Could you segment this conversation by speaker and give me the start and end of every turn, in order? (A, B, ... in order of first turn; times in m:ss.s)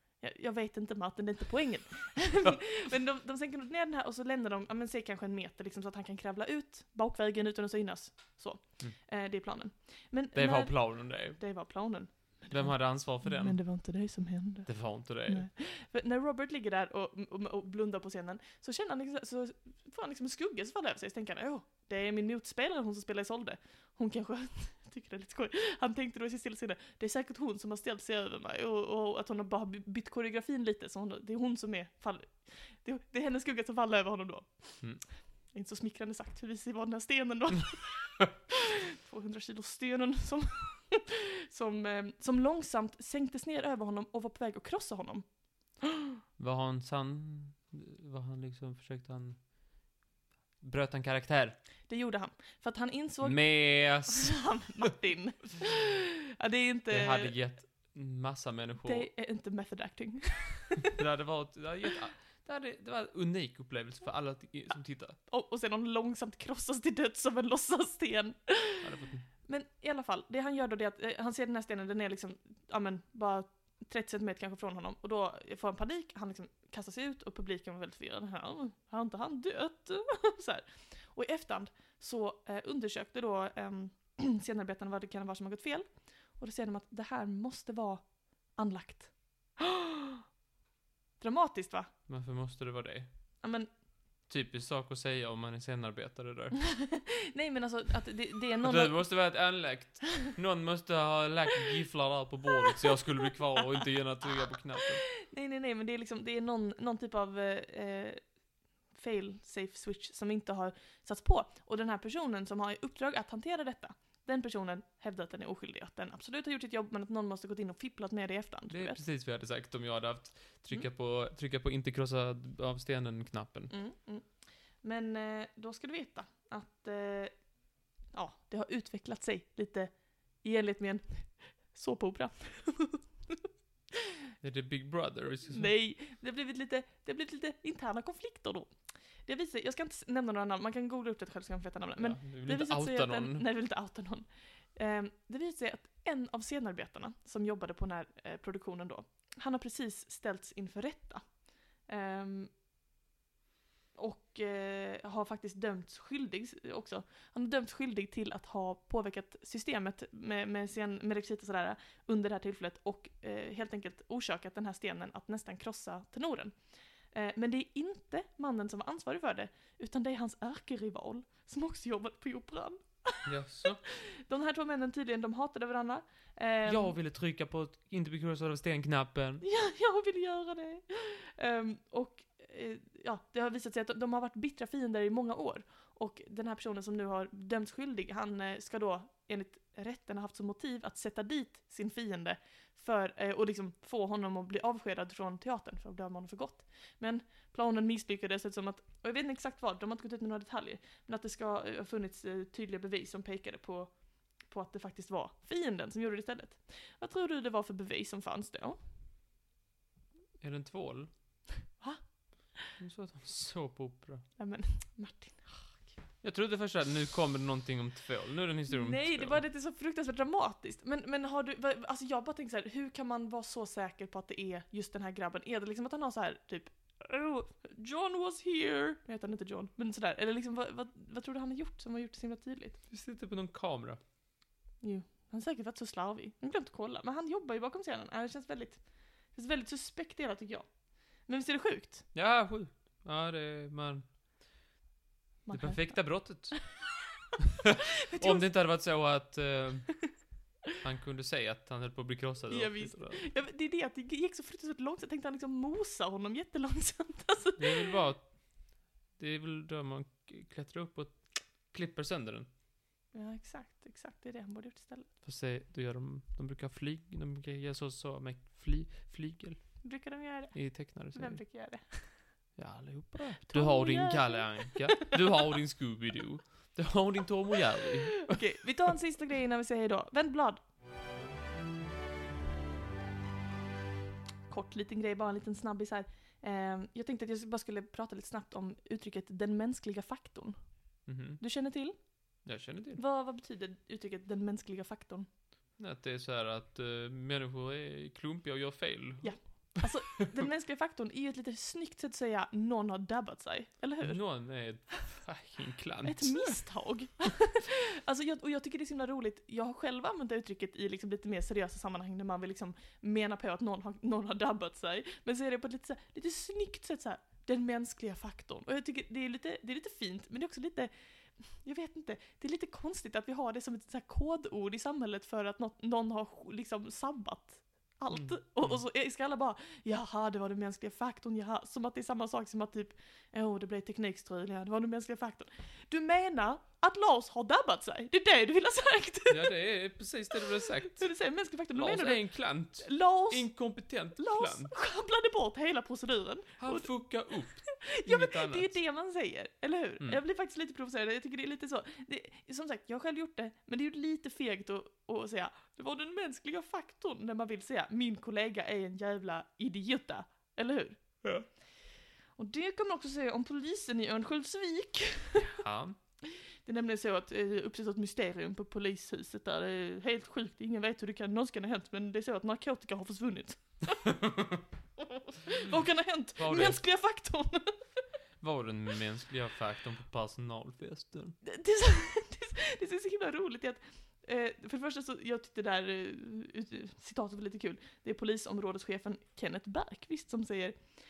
0:00.2-0:45.9 A
0:10.4-0:11.4 B
0:12.5-0:13.6 B
0:14.7-0:15.5 B
0:46.4-0:49.5 B
0:50.6-0:51.6 B
0:51.9-0:57.4 A
0:53.2-0:54.9 B
0:56.9-0:59.1 B
0:58.8-1:00.9 A
1:00.9-1:05.2 B
1:05.3-1:08.9 A
1:08.8-1:09.3 B
1:09.4-1:30.2 A
1:31.2-1:31.9 A
1:32.1-1:33.1 B
1:33.4-1:33.7 A
1:34.3-1:36.6 B
1:36.6-1:39.3 A
1:38.6-1:45.0 B
1:45.0-1:48.2 A
1:48.9-1:59.0 A
1:58.7-2:03.7 B
2:03.7-2:07.4 A
2:08.1-2:13.4 A
2:14.4-2:15.7 B
2:15.5-2:18.7 A
2:19.3-2:31.4 A
2:22.0-2:23.4 B
2:31.9-2:32.5 A
2:34.0-2:46.6 A
2:47.1-2:53.3 A
2:53.2-2:53.8 B
2:53.8-2:57.0 A
2:56.7-2:59.4 B
2:59.4-3:28.8 A
3:30.4-3:31.1 B
3:32.8-3:34.2 B
3:34.4-3:36.0 A
3:36.2-3:39.4 B
3:38.7-3:52.8 A
3:52.9-3:54.0 B
3:54.8-3:58.8 A
3:59.3-4:00.7 A
4:01.3-4:02.1 A
4:02.1-4:04.1 B
4:05.5-4:06.6 A
4:05.5-4:06.7 B
4:07.6-4:10.1 B
4:08.1-4:08.5 A
4:10.8-4:13.2 B
4:12.5-4:18.0 A
4:17.6-4:18.3 B
4:19.2-4:22.5 B
4:23.1-4:25.1 A
4:25.2-4:29.9 B
4:29.8-4:32.2 A
4:30.5-4:31.4 B
4:32.6-4:38.4 B
4:33.5-4:35.2 A
4:38.2-4:40.6 A
4:44.5-4:50.6 A
4:51.1-4:51.4 B
4:51.4-4:52.0 A
4:52.4-4:53.0 B
4:53.0-4:55.3 A
4:55.8-5:00.5 B
4:59.2-5:04.2 A
5:04.0-5:06.6 B
5:06.0-5:39.6 A
5:28.1-5:28.8 B
5:39.3-5:41.1 B
5:40.5-5:43.5 A
5:41.8-5:44.7 B
5:44.2-5:46.9 A
5:46.6-5:48.7 B
5:47.6-6:01.2 A
6:02.4-6:05.6 A
6:05.4-6:06.0 B
6:06.2-6:14.2 A
6:14.1-6:14.6 B
6:15.0-6:17.8 A
6:16.4-6:16.8 B
6:18.4-6:21.4 B
6:21.4-6:30.8 A